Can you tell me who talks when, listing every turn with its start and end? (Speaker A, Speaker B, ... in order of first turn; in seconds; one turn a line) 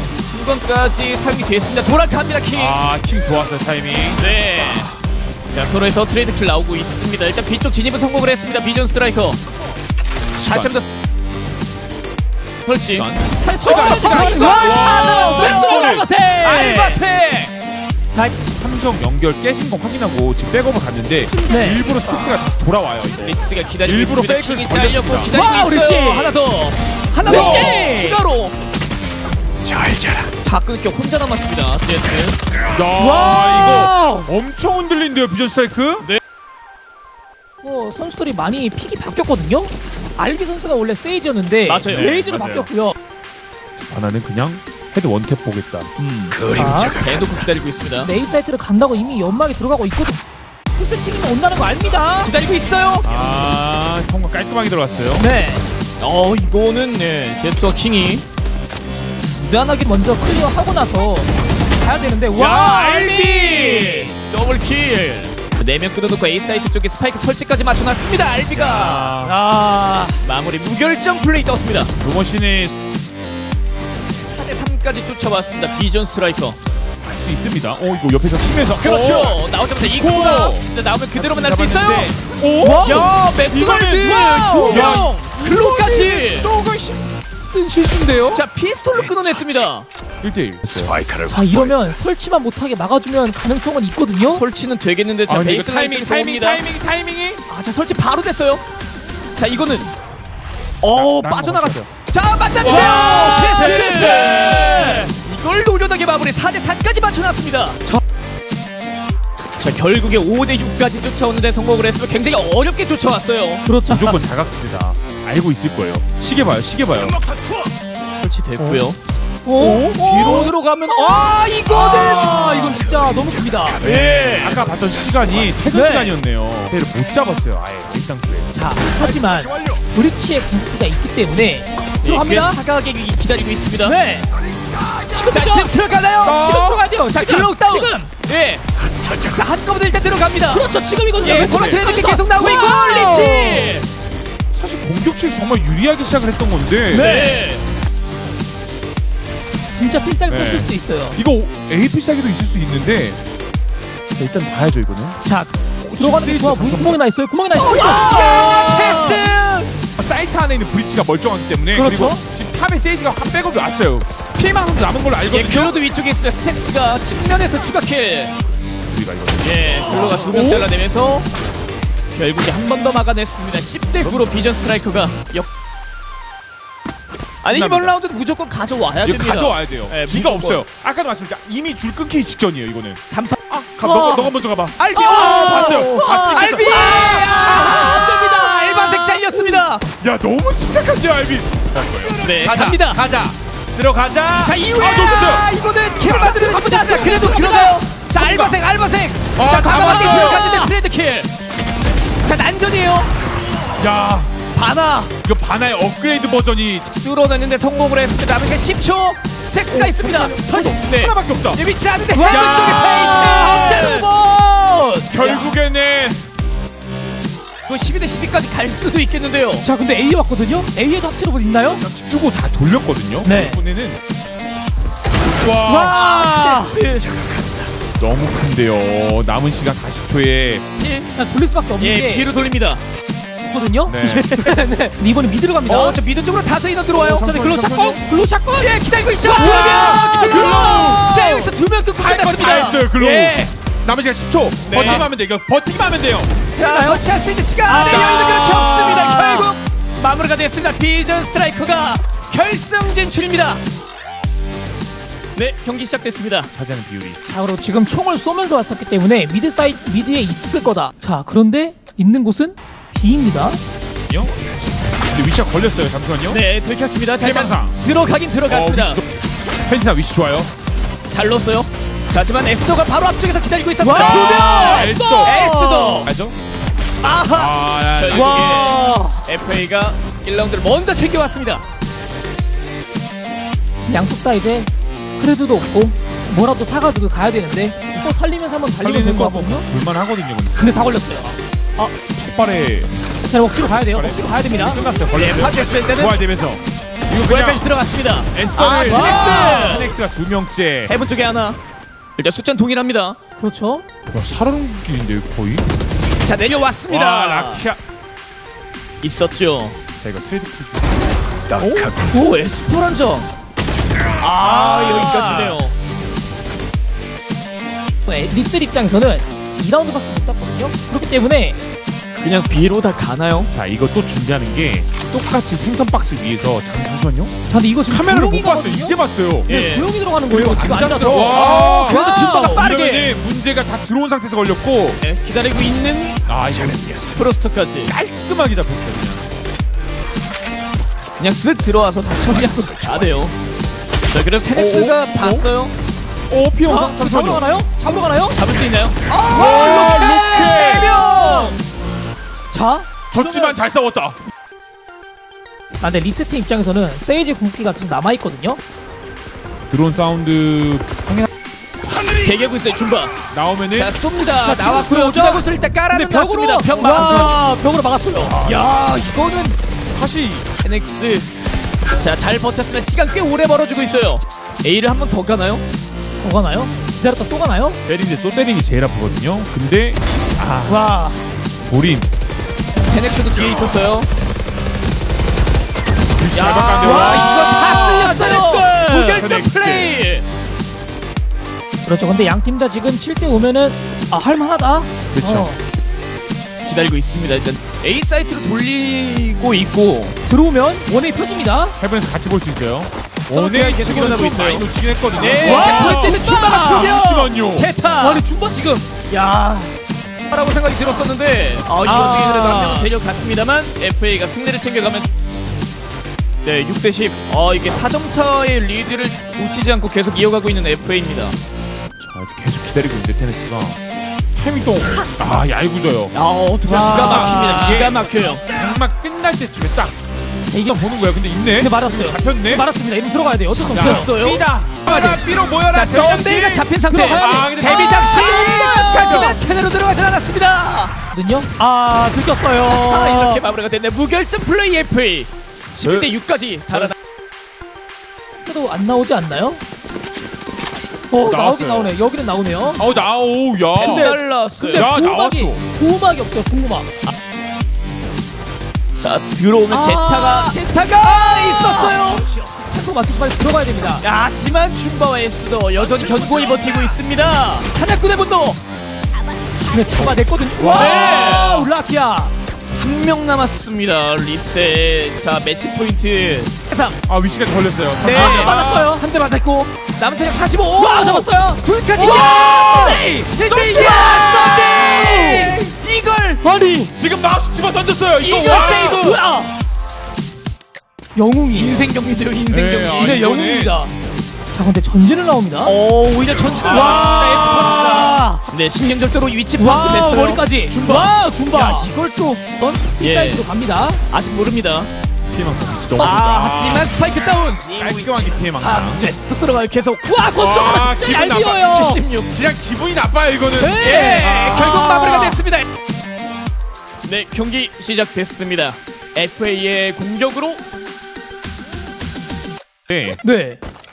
Speaker A: 0.2-2.8
Speaker B: 2.5-4.3
Speaker A: 4.2-4.9
Speaker A: 5.5-9.4
Speaker A: 10.4-10.8
Speaker B: 10.4-10.8
Speaker A: 12.7-17.5
Speaker B: 12.9-16.1
Speaker C: 13.4-17.0
Speaker B: 18.3-25.3
Speaker C: 21.4-21.8
Speaker A: 23.2-28.6
Speaker C: 25.3-26.4
Speaker C: 27.2-28.2
Speaker B: 27.3-27.6
Speaker A: 30.4-32.4
Speaker B: 32.7-36.1
Speaker C: 33.0-34.3
Speaker C: 37.6-43.0
Speaker A: 41.6-42.2
Speaker B: 41.9-42.7
Speaker B: 43.8-45.9
Speaker A: 46.0-48.1
Speaker C: 46.5-47.0
Speaker C: 48.0-50.2
Speaker C: 50.7-52.3
Speaker A: 52.2-53.5
Speaker B: 53.0-55.2
Speaker C: 55.2-55.6
Speaker A: 56.0-58.2
Speaker C: 59.4-64.1
Speaker A: 62.4-69.2
Speaker B: 68.5-69.4
Speaker C: 69.2-70.2
Speaker A: 70.2-71.9
Speaker B: 72.0-72.7
Speaker A: 74.2-76.6
Speaker B: 77.0-88.4
Speaker A: 78.6-82.2
Speaker C: 82.6-83.1
Speaker A: 82.8-86.5
Speaker C: 84.0-85.2
Speaker A: 88.3-89.9
Speaker B: 90.2-91.0
Speaker C: 91.2-94.4
Speaker A: 94.2-96.6
Speaker B: 95.3-97.4
Speaker A: 97.5-98.6
Speaker A: 99.4-99.9
Speaker A: 100.8-107.8
Speaker B: 100.9-101.9
Speaker C: 102.6-105.1
Speaker B: 102.7-104.2
Speaker A: 109.6-114.2
Speaker C: 113.6-114.1
Speaker B: 113.9-117.2
Speaker A: 118.2-119.0
Speaker B: 118.6-118.9
Speaker C: 119.4-123.8
Speaker B: 119.5-120.5
Speaker A: 120.0-122.8
Speaker B: 122.1-122.7
Speaker B: 123.8-128.5
Speaker A: 123.8-124.7
Speaker C: 125.7-126.1
Speaker C: 128.5-132.6
Speaker A: 132.0-133.9
Speaker C: 133.8-134.3
Speaker C: 135.1-135.7
Speaker A: 135.3-138.6
Speaker C: 136.2-138.1
Speaker B: 136.3-136.8
Speaker A: 139.1-143.9
Speaker C: 140.5-143.7
Speaker B: 141.3-141.8
Speaker B: 144.5-147.1
Speaker C: 146.9-147.5
Speaker A: 146.9-147.6
Speaker C: 149.7-151.2
Speaker B: 150.3-153.2
Speaker B: 154.2-155.2
Speaker C: 155.2-159.2
Speaker B: 155.8-157.0
Speaker A: 157.6-159.7
Speaker B: 159.9-165.8
Speaker C: 161.7-162.2
Speaker A: 165.3-168.3
Speaker B: 168.9-170.6
Speaker A: 169.4-171.3
Speaker A: 172.1-175.5
Speaker B: 174.0-174.3
Speaker A: 177.4-180.6
Speaker B: 177.5-177.9
Speaker B: 179.0-187.1
Speaker A: 183.1-183.4
Speaker C: 183.8-184.4
Speaker A: 184.8-189.8
Speaker C: 184.9-189.6
Speaker B: 190.0-197.6
Speaker A: 192.2-193.0
Speaker A: 194.4-201.3
Speaker C: 196.5-197.8
Speaker B: 198.1-198.6
Speaker B: 199.3-200.5
Speaker C: 200.0-200.7
Speaker A: 202.2-203.1
Speaker B: 203.8-204.3
Speaker A: 204.5-205.1
Speaker B: 205.2-206.9
Speaker A: 207.0-214.1
Speaker B: 209.7-211.6
Speaker C: 212.1-215.5
Speaker B: 213.1-213.9
Speaker B: 215.1-216.2
Speaker A: 217.7-219.7
Speaker C: 219.6-221.8
Speaker B: 221.8-224.0
Speaker C: 223.2-223.6
Speaker B: 225.4-225.9
Speaker C: 225.6-226.8
Speaker A: 225.7-227.2
Speaker B: 228.0-230.6
Speaker A: 230.8-231.1
Speaker C: 231.1-232.2
Speaker A: 231.8-232.8
Speaker C: 233.4-236.0
Speaker B: 233.8-234.4
Speaker A: 235.7-237.2
Speaker B: 236.9-238.0
Speaker C: 237.1-241.5
Speaker A: 238.6-243.5
Speaker B: 239.3-241.1
Speaker B: 242.0-246.3
Speaker A: 244.6-245.1
Speaker C: 246.5-247.0
Speaker A: 246.6-253.6
Speaker C: 247.6-249.5
Speaker A: 255.3-256.5
Speaker B: 256.5-257.2
Speaker C: 257.3-263.6
Speaker B: 264.1-264.4
Speaker B: 265.0-266.4
Speaker A: 266.3-269.0
Speaker B: 267.2-267.8
Speaker B: 268.5-270.5
Speaker A: 271.1-276.1
Speaker C: 273.8-276.1
Speaker B: 273.9-275.4
Speaker B: 276.0-276.4
Speaker A: 277.0-281.6
Speaker B: 277.3-278.7
Speaker C: 278.1-279.3
Speaker C: 283.9-289.6
Speaker B: 288.8-290.6
Speaker C: 290.6-291.4
Speaker B: 291.8-292.9
Speaker C: 293.3-294.8
Speaker B: 293.8-297.7
Speaker A: 295.1-296.2
Speaker A: 297.2-299.9
Speaker B: 298.3-300.9
Speaker C: 298.8-299.9
Speaker A: 300.9-301.6
Speaker A: 302.2-303.2
Speaker C: 303.4-303.8
Speaker B: 304.1-305.6
Speaker A: 306.2-307.6
Speaker B: 306.9-307.8
Speaker A: 309.0-309.8
Speaker B: 310.0-311.0
Speaker A: 311.6-313.3
Speaker A: 314.2-315.7
Speaker C: 314.4-315.6
Speaker B: 314.7-315.6
Speaker C: 318.1-321.6
Speaker A: 322.2-323.5
Speaker B: 323.5-327.3
Speaker C: 327.5-332.7
Speaker B: 327.9-329.5
Speaker A: 329.5-329.9
Speaker B: 330.3-335.0
Speaker A: 330.7-333.1
Speaker A: 335.0-336.2
Speaker B: 336.2-337.2
Speaker A: 337.1-337.9
Speaker B: 337.9-339.2
Speaker A: 341.2-343.3
Speaker A: 344.1-345.7
Speaker B: 344.5-345.5
Speaker B: 346.3-347.5
Speaker C: 346.6-348.4
Speaker A: 348.3-351.6
Speaker B: 349.3-351.0
Speaker C: 349.4-351.6
Speaker C: 352.5-353.6
Speaker B: 353.1-354.2
Speaker C: 355.8-358.6
Speaker B: 359.7-361.3
Speaker A: 362.2-363.1
Speaker B: 363.3-363.9
Speaker A: 363.8-367.5
Speaker C: 364.4-368.4
Speaker B: 366.9-367.4
Speaker B: 368.2-368.7
Speaker A: 368.3-369.6
Speaker B: 369.9-370.5
Speaker A: 370.6-371.3
Speaker A: 372.0-375.6
Speaker C: 376.2-377.8
Speaker B: 377.9-380.8
Speaker C: 380.6-381.2
Speaker B: 381.6-382.1
Speaker A: 382.9-384.1
Speaker B: 386.2-388.3
Speaker A: 386.3-390.2
Speaker C: 386.8-389.2
Speaker B: 389.2-389.9
Speaker C: 391.8-395.6
Speaker B: 395.1-395.5
Speaker A: 396.6-400.2
Speaker C: 400.2-401.8
Speaker B: 401.8-407.7
Speaker A: 403.3-408.2
Speaker C: 405.4-406.9
Speaker C: 408.0-408.9
Speaker A: 409.1-409.8
Speaker A: 410.3-415.1
Speaker C: 411.8-412.9
Speaker A: 416.4-421.3
Speaker B: 422.0-423.8
Speaker B: 424.4-426.1
Speaker A: 426.1-428.4
Speaker C: 426.6-427.9
Speaker B: 426.8-429.9
Speaker C: 430.5-430.8
Speaker B: 430.6-432.7
Speaker C: 431.6-434.1
Speaker B: 433.7-439.4
Speaker A: 433.7-440.9
Speaker C: 436.9-439.4
Speaker C: 441.1-443.4
Speaker A: 442.6-446.9
Speaker B: 445.8-446.1
Speaker C: 448.4-449.6
Speaker C: 451.1-452.8
Speaker B: 451.2-451.9
Speaker B: 452.8-454.2
Speaker A: 453.7-454.9
Speaker C: 453.8-456.9
Speaker B: 454.7-455.6
Speaker A: 458.9-462.3
Speaker C: 459.7-464.0
Speaker A: 464.0-468.6
Speaker C: 469.6-472.3
Speaker A: 470.6-471.6
Speaker B: 471.0-471.7
Speaker A: 472.7-476.9
Speaker B: 477.0-478.6
Speaker A: 478.0-486.4
Speaker C: 478.0-479.0
Speaker C: 480.8-485.6
Speaker C: 486.4-486.9
Speaker B: 486.9-489.0
Speaker A: 488.2-489.2
Speaker C: 488.5-489.5
Speaker C: 491.1-491.9
Speaker A: 491.5-493.2
Speaker B: 492.5-493.8
Speaker C: 492.9-493.9
Speaker C: 494.5-495.8
Speaker A: 495.6-501.9
Speaker B: 496.5-498.0
Speaker C: 496.6-498.4
Speaker C: 499.6-504.0
Speaker A: 503.0-503.4
Speaker A: 504.1-504.9
Speaker B: 505.3-506.9
Speaker A: 506.0-510.1
Speaker C: 506.0-506.2
Speaker B: 507.7-509.0
Speaker C: 510.0-512.0
Speaker B: 510.3-514.6
Speaker A: 511.7-512.3
Speaker C: 513.6-515.4
Speaker A: 513.8-515.6
Speaker A: 517.0-520.6
Speaker B: 522.9-523.2
Speaker C: 523.1-523.6